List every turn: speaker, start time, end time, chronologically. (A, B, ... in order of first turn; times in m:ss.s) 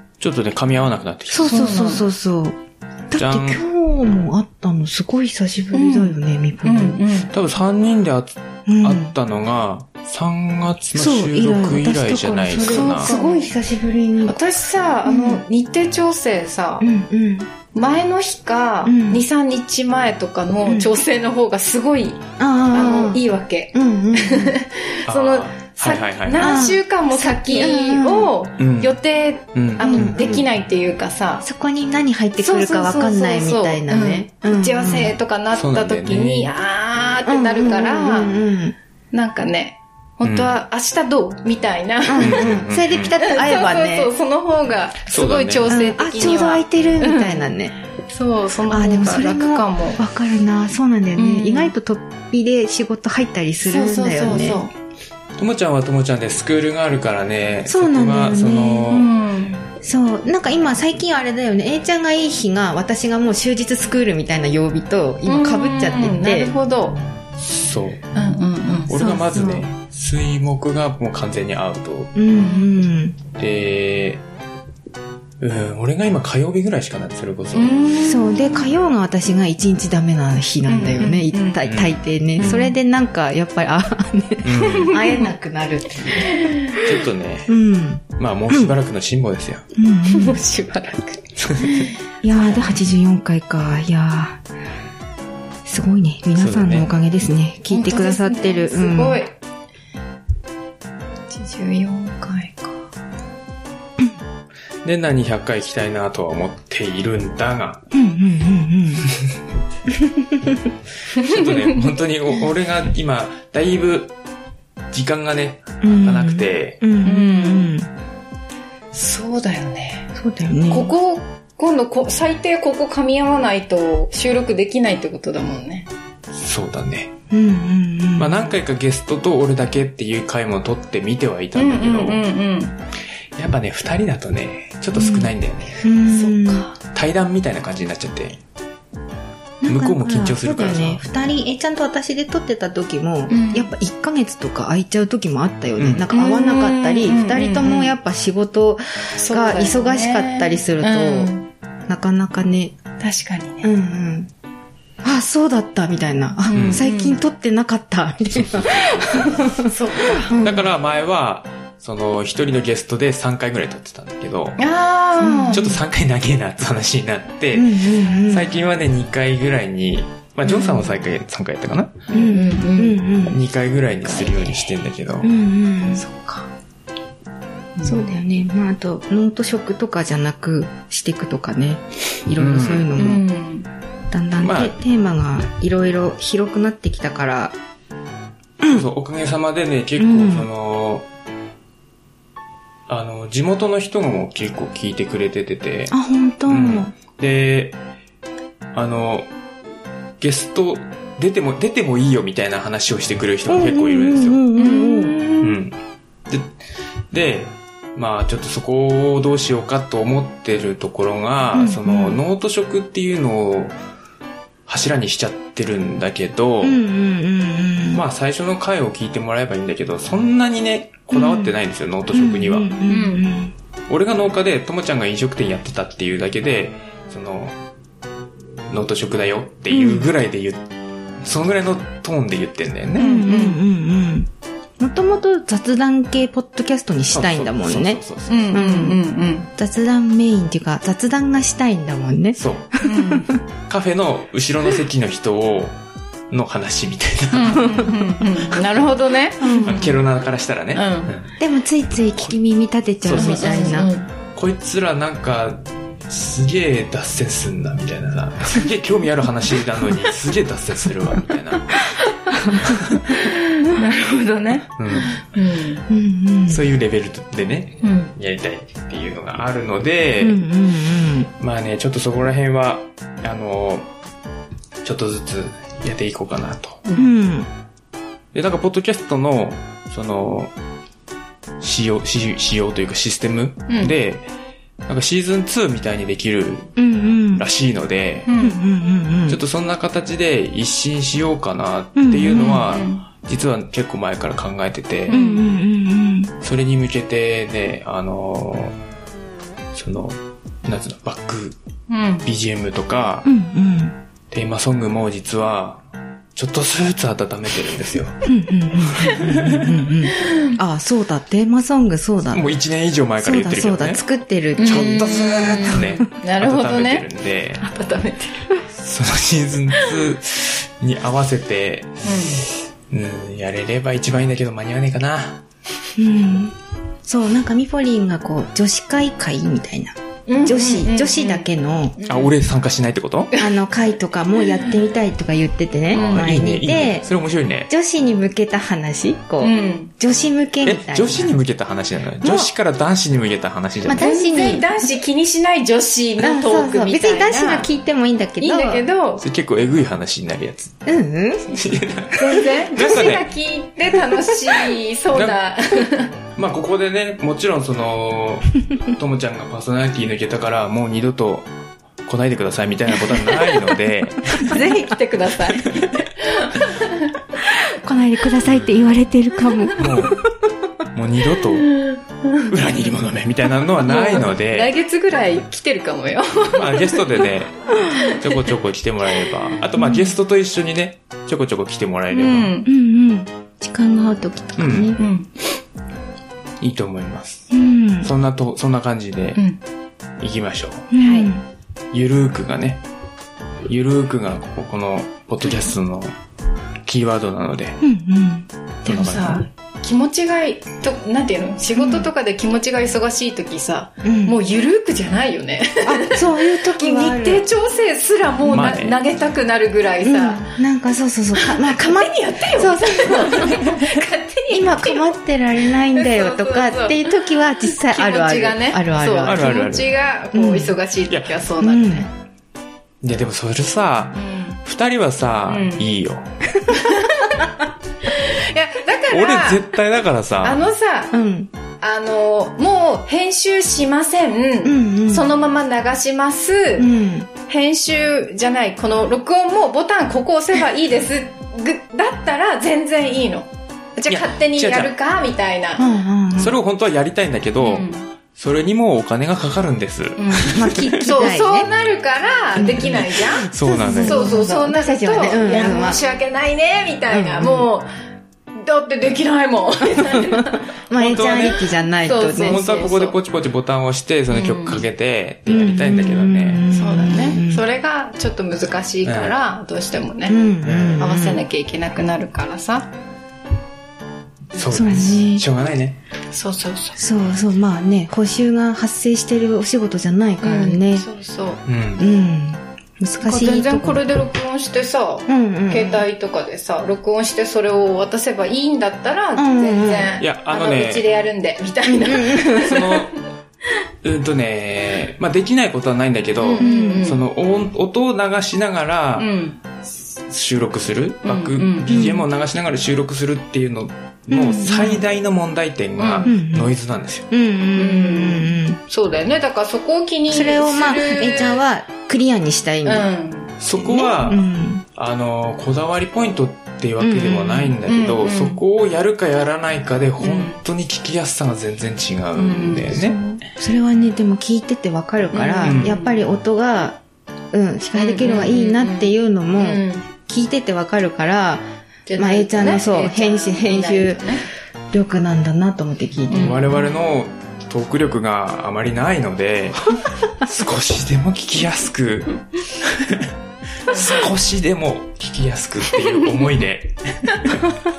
0:00.2-0:01.7 A
0:01.3-0:02.6 B
0:01.4-0:02.1 C
0:03.1-0:07.0 B
0:03.2-0:03.6 A
0:05.7-0:07.3 C
0:07.3-0:13.1 A
0:08.7-0:09.1 B
0:11.0-0:14.4 B
0:12.6-0:13.5 C
0:14.2-0:16.9 C
0:15.0-0:15.4 B
0:16.8-0:17.5 B
0:17.7-0:31.4 C
0:18.8-0:19.2 B
0:20.7-0:20.9 B
0:22.4-0:23.2 B
0:23.7-0:24.6 B
0:25.1-0:26.6 A
0:26.4-0:28.3 B
0:28.6-0:29.0 A
0:29.6-0:30.5 A
0:29.8-0:30.2 B
0:31.4-0:35.1 B
0:32.4-0:38.4 C
0:35.6-0:36.5 A
0:37.3-0:38.8 B
0:39.1-0:42.6 C
0:40.2-0:40.6 A
0:42.1-0:44.1 B
0:42.2-0:43.1 A
0:43.2-0:47.5 C
0:45.1-0:45.7 A
0:45.7-0:47.8 B
0:48.1-0:50.0 C
0:48.7-0:54.6 B
0:51.2-0:51.7 C
0:53.6-0:54.7 C
0:55.4-0:59.1 A
0:57.7-0:58.9 B
0:58.9-0:59.7 C
0:59.8-1:06.6 B
1:05.3-1:07.0 C
1:07.4-1:12.1 A
1:08.2-1:08.9 C
1:08.9-1:09.7 B
1:12.2-1:13.2 B
1:12.3-1:12.8 C
1:13.4-1:14.2 A
1:15.4-1:17.8 A
1:17.5-1:18.7 C
1:18.0-1:26.5 B
1:20.7-1:21.6 C
1:21.6-1:22.8 A
1:24.4-1:25.0 A
1:24.7-1:25.3 C
1:26.2-1:26.9 C
1:26.8-1:27.5 A
1:27.5-1:28.8 B
1:28.2-1:29.6 A
1:29.8-1:30.4 B
1:30.1-1:32.8 C
1:31.4-1:31.9 A
1:32.2-1:34.4 B
1:35.6-1:39.2 B
1:36.4-1:36.9 A
1:37.7-1:39.3 C
1:41.3-1:42.9 C
1:44.8-1:47.8 A
1:47.9-1:49.1 B
1:50.0-1:50.7 B
1:51.2-1:51.9 C
1:51.2-1:54.1 A
1:54.9-1:56.8 A
1:55.8-1:57.9 B
1:57.0-1:57.8 C
1:58.9-2:00.1 C
2:00.2-2:00.9 B
2:00.7-2:05.9 C
2:06.4-2:07.1 A
2:07.3-2:08.4 B
2:08.2-2:12.2 A
2:11.6-2:12.8 C
2:13.4-2:15.8 A
2:15.0-2:16.7 B
2:16.1-2:16.8 C
2:16.9-2:18.4 A
2:19.6-2:31.3 B
2:19.7-2:21.0 A
2:23.3-2:23.7 C
2:25.8-2:26.1 A
2:26.1-2:27.9 C
2:29.2-2:31.5 C
2:31.9-2:32.8 B
2:33.0-2:33.7 C
2:33.6-2:34.3 B
2:35.0-2:40.6 B
2:36.4-2:37.2 C
2:36.5-2:36.8 A
2:38.3-2:39.3 A
2:39.3-2:40.5 C
2:40.4-2:44.6 A
2:44.6-2:45.7 C
2:45.2-2:45.8 B
2:45.5-2:52.1 A
2:47.5-2:48.5 B
2:50.5-2:50.9 C
2:52.1-2:53.0 C
2:52.1-2:53.4 B
2:53.3-2:55.3 A
2:54.1-2:54.7 C
2:55.2-2:56.0 B
2:56.0-2:56.5 C
2:57.8-2:58.2 C
2:57.8-3:03.2 B
3:02.4-3:03.0 A
3:03.0-3:03.7 C
3:04.1-3:07.6 B
3:04.4-3:04.8 A
3:08.6-3:08.9 B
3:08.7-3:11.1 A
3:10.0-3:10.5 B
3:12.9-3:16.0 A
3:15.9-3:16.9 B
3:16.5-3:17.8 A
3:18.7-3:19.3 A
3:20.2-3:24.4 A
3:23.5-3:25.5 B
3:24.6-3:25.5 C
3:25.4-3:25.8 A
3:26.3-3:26.6 A
3:27.1-3:33.8 A
3:31.5-3:32.2 B
3:34.7-3:36.8 A
3:36.6-3:38.0 B
3:37.9-3:42.7 A
3:41.1-3:41.6 B
3:42.1-3:43.5 B
3:42.9-3:43.3 C
3:43.9-3:47.6 A
3:48.7-3:50.7 A
3:49.7-3:50.1 B
3:51.2-3:53.1 A
3:53.0-3:53.6 C
3:53.0-3:58.0 B
3:57.1-3:58.5 A
3:58.3-3:59.5 C
3:58.5-3:59.0 B
3:59.6-4:03.4 B
4:02.4-4:02.7 A
4:02.8-4:03.3 C
4:03.7-4:05.8 A
4:06.3-4:07.7 A
4:07.3-4:10.0 C
4:07.6-4:08.0 B
4:08.5-4:08.9 A
4:09.4-4:09.9 B
4:09.7-4:11.3 A
4:10.7-4:11.1 C
4:11.4-4:13.9 B
4:13.0-4:21.8 A
4:13.1-4:14.1 C
4:22.3-4:23.2 B
4:22.7-4:23.0 A
4:23.1-4:25.8 C
4:24.8-4:25.1 A
4:25.9-4:26.6 B
4:26.5-4:30.4 A
4:27.8-4:28.1 C
4:30.2-4:31.3 B
4:31.4-4:33.9 A
4:34.8-4:36.8 A
4:37.0-4:37.5 B
4:38.3-4:40.5 A
4:41.6-4:44.3 A
4:43.7-4:44.0 C
4:44.9-4:46.8 A
4:46.8-4:47.4 B
4:47.3-4:48.3 A
4:48.3-4:48.6 C
4:48.4-4:49.4 B
4:49.3-4:55.2 A
4:52.0-4:52.7 B
4:52.3-4:53.0 C
4:55.1-4:55.4 C
4:55.1-4:56.3 B
4:56.4-4:58.8 A
4:59.7-5:01.6 A
5:01.9-5:02.3 C
5:02.2-5:03.3 A
5:03.2-5:04.0 B
5:04.3-5:05.8 A
5:06.4-5:08.2 A
5:08.2-5:12.5 B
5:09.0-5:09.8 A
5:10.2-5:10.6 C
5:12.3-5:14.0 A
5:13.2-5:16.0 B
5:14.6-5:17.1 C
5:14.6-5:17.7 A
5:17.6-5:18.6 C
5:18.7-5:25.4 A
5:22.0-5:22.5 C
5:26.0-5:26.5 B
5:27.0-5:32.0 B
5:30.3-5:32.4 C
5:32.1-5:33.3 A
5:33.4-5:37.1 B
5:35.9-5:36.3 C
5:35.9-5:37.7 A
5:37.7-5:41.3 B
5:39.4-5:39.9 C
5:40.6-5:44.1 A
5:42.2-5:42.5 B
5:43.9-5:44.7 B
5:43.9-5:47.7 C
5:46.2-5:48.8 B
5:48.4-5:49.2 C
5:49.2-5:50.8 A
5:50.9-5:51.5 B
5:51.5-5:53.3 A
5:52.2-5:56.1 C
5:54.6-5:55.4 A
5:56.4-6:01.5 A
6:02.1-6:04.7 A
6:04.3-6:07.1 C
6:04.4-6:04.8 B
6:07.5-6:10.2 B
6:09.8-6:10.2 A
6:10.9-6:11.7 A
6:11.5-6:12.6 C
6:12.5-6:14.7 A
6:13.8-6:17.3 C
6:16.6-6:22.5 A
6:17.9-6:18.4 C
6:22.1-6:22.7 C
6:22.7-6:25.0 B
6:24.6-6:25.0 A
6:25.0-6:25.3 C
6:26.6-6:27.5 A
6:27.5-6:28.1 B
6:28.0-6:29.4 A
6:29.4-6:29.6 C
6:30.2-6:30.9 A
6:30.9-6:31.4 B
6:31.0-6:31.3 C
6:31.9-6:32.8 A
6:33.7-6:36.2 A
6:36.9-6:37.8 A
6:37.8-6:39.4 B
6:38.8-6:39.4 A
6:38.9-6:50.6 C
6:41.8-6:42.1 B
6:44.0-6:44.4 B
6:45.8-6:47.4 B
6:48.4-6:48.8 B
6:48.5-6:49.0 A
6:50.0-6:53.5 B
6:51.3-6:55.1 C
6:53.5-6:54.0 A
6:54.5-6:59.6 B
6:55.8-7:02.1 C
6:59.3-6:59.9 A
7:00.3-7:00.8 B
7:01.1-7:01.4 A
7:01.6-7:02.1 B
7:03.0-7:06.3 A
7:04.2-7:04.6 C
7:05.5-7:05.8 C
7:06.7-7:07.5 C
7:08.1-7:09.7 C
7:09.1-7:10.6 A
7:10.4-7:11.1 C
7:11.1-7:11.5 B
7:11.8-7:16.9 C
7:14.6-7:15.3 B
7:16.8-7:17.3 B
7:17.5-7:25.8 C
7:24.1-7:24.9 A
7:25.8-7:26.6 B
7:26.4-7:31.1 A
7:27.6-7:28.1 C
7:30.2-7:37.9 C
7:30.5-7:31.7 B
7:32.6-7:36.0 B
7:32.8-7:34.3 A
7:37.1-7:37.7 B
7:38.6-7:43.2 C
7:40.1-7:42.6 B
7:41.0-7:41.6 A
7:42.4-7:46.6 A
7:44.3-7:44.8 C
7:45.5-7:47.6 B
7:46.7-7:50.4 C
7:49.0-7:49.3 A
7:50.3-7:51.4 B
7:50.6-7:51.1 A
7:51.0-7:52.9 C
7:54.5-7:56.0 A
7:54.6-7:55.0 C
7:54.7-7:55.4 B
7:56.3-7:57.0 C
7:57.0-8:01.1 B
8:00.4-8:01.6 C
8:01.7-8:02.1 A
8:02.0-8:04.0 B
8:03.2-8:13.1 C
8:05.3-8:06.1 B
8:09.4-8:10.2 B
8:10.2-8:11.1 A
8:11.9-8:12.8 B
8:12.6-8:13.1 A
8:14.0-8:19.3 A
8:16.4-8:17.2 C
8:16.6-8:17.2 B
8:19.2-8:19.6 C
8:20.3-8:27.3 A
8:21.2-8:22.0 C
8:21.9-8:22.3 B
8:24.3-8:25.0 B
8:26.0-8:26.3 C
8:26.2-8:26.7 B
8:27.3-8:28.8 B
8:27.8-8:31.6 C
8:30.3-8:33.1 B
8:32.8-8:33.5 C
8:33.6-8:43.2 A
8:33.8-8:34.8 B
8:37.0-8:37.8 B
8:37.8-8:38.6 C
8:40.2-8:40.6 C
8:42.4-8:43.2 C
8:43.1-8:47.0 B
8:45.3-8:46.3 C
8:45.6-8:46.0 A
8:47.5-8:51.6 B
8:48.0-8:50.0 C
8:52.1-8:54.4 C
8:52.2-8:54.2 B
8:54.9-8:56.7 B
8:56.3-8:56.6 C
8:56.4-9:03.3 A
9:03.9-9:07.6 A
9:03.9-9:04.2 C